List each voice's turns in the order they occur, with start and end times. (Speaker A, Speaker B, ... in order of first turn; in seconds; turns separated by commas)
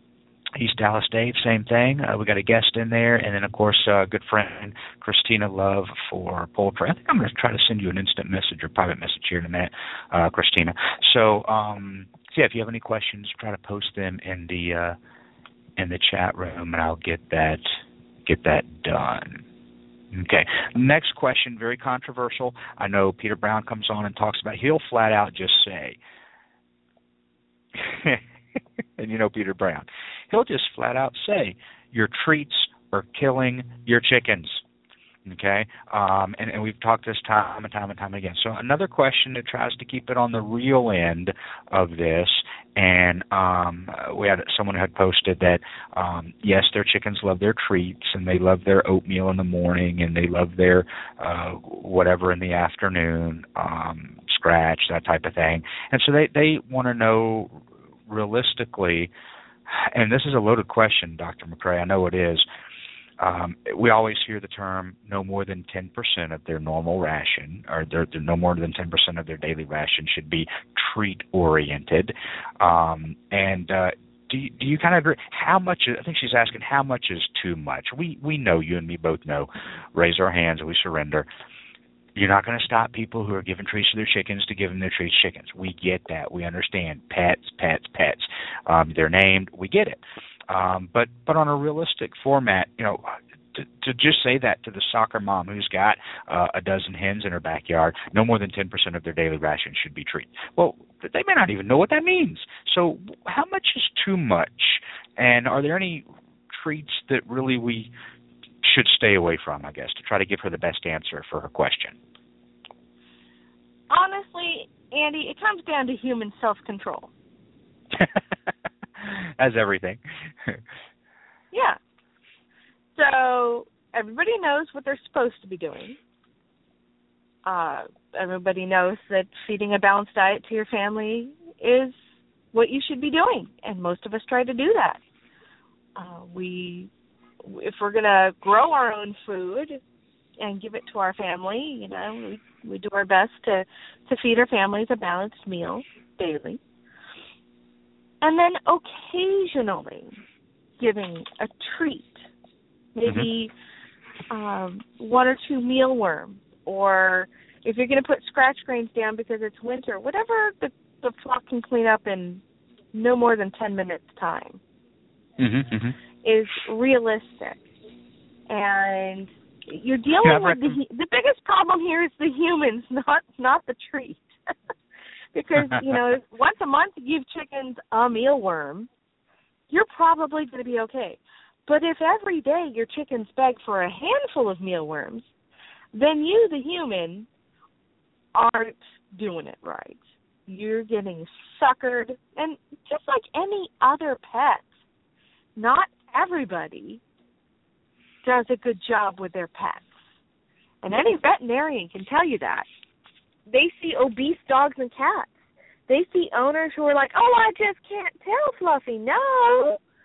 Speaker A: 0.6-15.0, Speaker A: 15.8-19.4, Speaker A: 20.1-26.0, Speaker A: 27.8-28.2, Speaker A: 29.0-34.6, Speaker A: 35.3-59.1, Speaker A: 59.7-62.5, Speaker A: 63.2-81.3, Speaker A: 82.2-107.9, Speaker A: 108.6-112.0, Speaker B: 113.9-117.1, Speaker A: 119.0-120.6, Speaker B: 121.5-121.8, Speaker B: 123.0-126.0, Speaker B: 127.5-132.0, Speaker B: 132.5-135.0, Speaker B: 136.0-136.9, Speaker B: 137.4-139.8, Speaker B: 140.4-146.6, Speaker B: 148.2-150.2, Speaker B: 150.8-152.2, Speaker B: 152.9-153.5, Speaker A: 153.1-153.3, Speaker B: 154.3-162.4, Speaker B: 162.9-164.6, Speaker A: 165.4-166.0, Speaker B: 166.2-167.6, Speaker B: 168.5-174.2, Speaker A: 170.2-170.8, Speaker B: 175.3-178.9, Speaker B: 179.7-185.3, Speaker B: 185.9-187.3, Speaker B: 188.3-194.7, Speaker B: 195.6-197.0, Speaker B: 198.2-199.9, Speaker B: 200.8-202.7, Speaker B: 203.5-205.3, Speaker B: 205.9-209.8